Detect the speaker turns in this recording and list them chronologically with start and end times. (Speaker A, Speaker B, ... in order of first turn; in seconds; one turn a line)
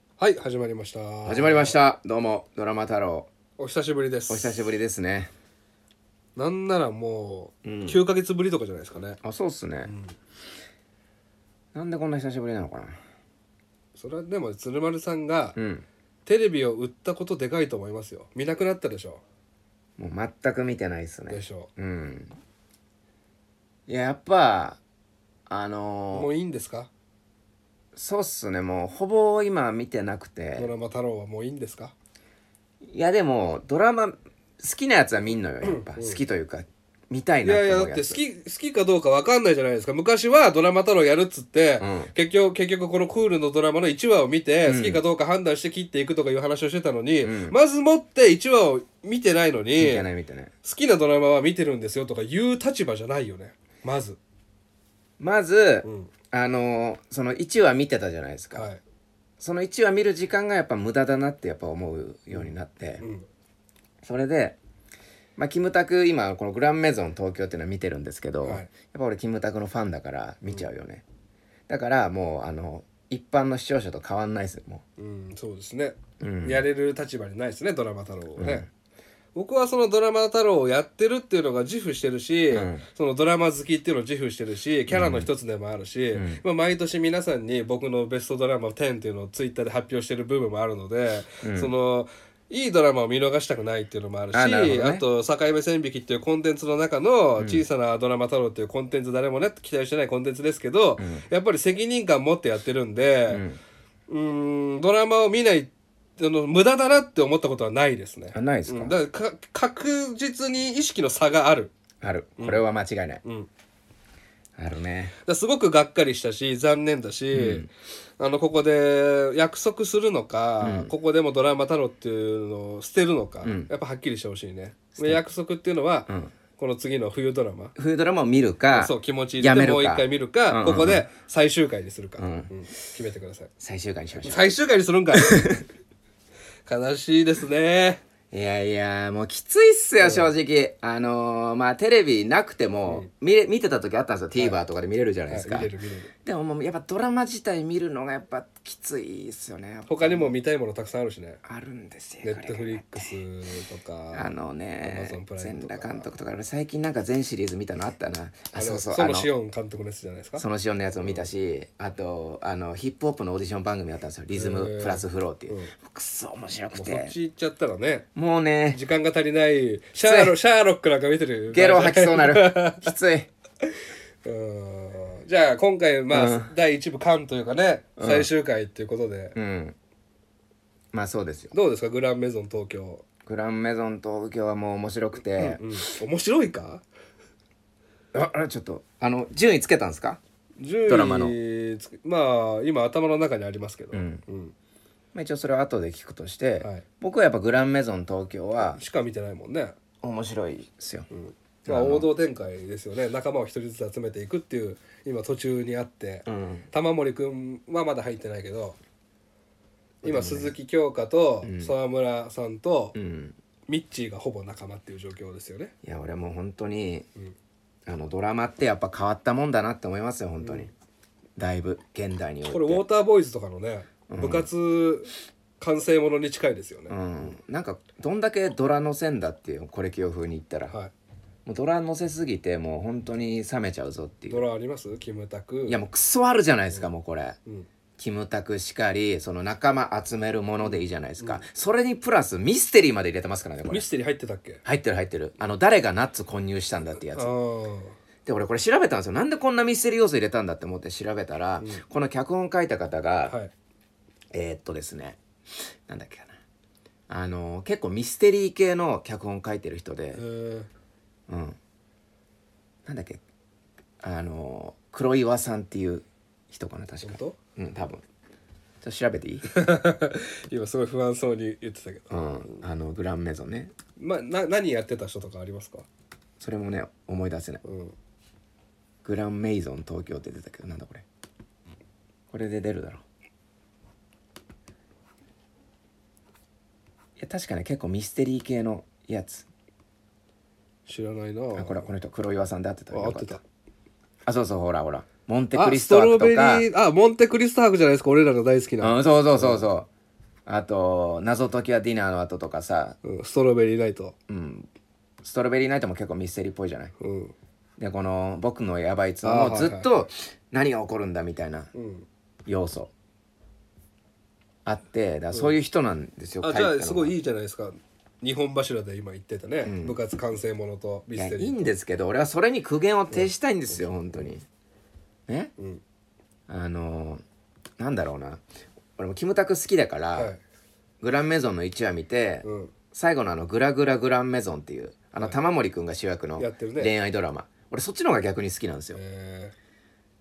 Speaker A: 0.2-1.7
Speaker B: 1.2-3.3
Speaker A: 3.6-4.7
Speaker B: 4.3-5.3
Speaker A: 6.3-9.2
Speaker B: 7.6-8.0
Speaker B: 9.2-9.9
Speaker A: 9.8-10.1
Speaker B: 11.7-13.0
Speaker A: 13.9-15.6
Speaker B: 15.6-15.8
Speaker A: 16.2-19.2
Speaker B: 20.0-22.4
Speaker A: 21.3-21.7
Speaker B: 23.9-24.8
Speaker B: 25.5-26.3
Speaker A: 26.1-26.9
Speaker B: 27.9-30.7
Speaker A: 30.6-31.9
Speaker B: 32.9-38.2
Speaker A: 35.6-36.2
Speaker A: 37.4-50.0
Speaker B: 41.8-42.1
Speaker B: 44.6-45.0
Speaker B: 47.2-47.6
Speaker B: 49.8-50.5
Speaker A: 50.6-54.2
Speaker B: 55.2-58.7
Speaker A: 55.8-56.1
Speaker A: 58.5-58.8
Speaker B: 59.4-63.0
Speaker A: 63.0-63.2
Speaker B: 64.0-64.6
Speaker B: 65.4-71.0
Speaker A: 68.4-68.7
Speaker B: 71.7-74.8
Speaker A: 75.0-78.7
Speaker B: 76.2-76.6
Speaker B: 78.4-78.7
Speaker A: 79.3-103.4
Speaker B: 82.5-82.8
Speaker B: 84.9-85.3
Speaker B: 86.1-86.4
Speaker B: 91.4-91.7
Speaker B: 94.3-95.0
Speaker B: 97.4-97.6
Speaker B: 101.0-101.2
Speaker B: 103.3-103.6
Speaker A: 104.1-111.7
Speaker B: 108.3-109.0
Speaker B: 112.0-113.2
Speaker A: 113.2-113.5
Speaker B: 114.5-115.1
Speaker A: 115.2-127.7
Speaker B: 117.3-117.7
Speaker B: 120.6-120.9
Speaker B: 123.4-123.7
Speaker B: 124.9-125.2
Speaker B: 127.8-131.1
Speaker A: 128.7-133.5
Speaker B: 132.2-132.5
Speaker B: 133.6-134.5
Speaker A: 134.2-135.5
Speaker B: 135.1-135.6
Speaker A: 136.7-138.0
Speaker B: 138.3-145.7
Speaker A: 140.0-140.3
Speaker A: 145.3-146.1
Speaker B: 146.2-150.3
Speaker A: 149.9-151.4
Speaker B: 151.4-153.1
Speaker A: 152.2-156.1
Speaker B: 154.1-159.3
Speaker A: 158.5-160.4
Speaker B: 160.4-167.1
Speaker A: 164.3-165.7
Speaker A: 166.7-168.1
Speaker B: 168.1-168.8
Speaker A: 168.7-172.9
Speaker B: 170.0-170.3
Speaker B: 171.5-173.3
Speaker A: 173.6-179.3
Speaker B: 176.1-176.5
Speaker B: 178.0-178.3
Speaker B: 179.3-179.7
Speaker B: 180.9-181.5
Speaker A: 181.5-183.0
Speaker B: 183.2-185.6
Speaker A: 185.3-186.8
Speaker B: 188.1-190.2
Speaker A: 190.6-194.5
Speaker B: 190.9-191.3
Speaker B: 193.9-194.2
Speaker B: 195.1-198.8
Speaker A: 198.6-199.8
Speaker B: 200.0-201.1
Speaker A: 201.1-208.8
Speaker B: 201.7-202.1
Speaker B: 206.2-206.7
Speaker B: 210.0-210.5
Speaker A: 210.0-212.9
Speaker B: 211.4-211.7
Speaker B: 212.9-213.3
Speaker A: 213.7-215.7
Speaker B: 215.8-217.1
Speaker B: 217.8-220.7
Speaker A: 220.4-220.7
Speaker B: 221.4-222.8
Speaker A: 222.5-227.3
Speaker B: 224.1-224.5
Speaker B: 226.9-230.7
Speaker B: 231.4-234.4
Speaker A: 234.3-235.8
Speaker B: 235.7-237.4
Speaker B: 238.0-243.8
Speaker A: 240.6-241.4
Speaker A: 243.7-244.6
Speaker B: 244.6-247.3
Speaker A: 247.1-247.9
Speaker B: 248.2-253.4
Speaker A: 253.3-253.5
Speaker B: 254.3-255.2
Speaker B: 255.9-256.4
Speaker B: 257.1-260.2
Speaker A: 260.1-260.7
Speaker B: 261.3-261.6
Speaker B: 262.9-263.2
Speaker B: 264.0-268.0
Speaker A: 267.0-267.4
Speaker B: 268.8-269.5
Speaker A: 269.5-272.5
Speaker B: 272.1-273.7
Speaker A: 274.0-275.9
Speaker B: 276.4-277.6
Speaker A: 277.6-277.9
Speaker B: 279.0-281.0
Speaker B: 282.3-283.0
Speaker B: 287.2-289.4
Speaker A: 290.9-291.9
Speaker B: 291.5-293.4
Speaker A: 292.9-293.4
Speaker B: 294.2-296.7
Speaker A: 295.5-299.6
Speaker B: 298.8-299.9
Speaker B: 300.4-303.0
Speaker A: 303.0-304.1
Speaker B: 304.3-304.7
Speaker B: 305.2-306.9
Speaker A: 307.0-307.3
Speaker B: 307.8-311.7
Speaker A: 309.2-309.9
Speaker A: 311.7-312.1
Speaker B: 312.4-312.9
Speaker B: 314.6-317.1
Speaker A: 316.4-321.6
Speaker B: 319.6-320.0
Speaker B: 321.1-324.4
Speaker A: 323.9-324.3
Speaker B: 326.5-327.2
Speaker B: 327.8-328.4
Speaker B: 329.0-330.3
Speaker B: 331.0-339.0
Speaker A: 332.4-332.7
Speaker A: 336.4-336.9
Speaker A: 338.9-339.5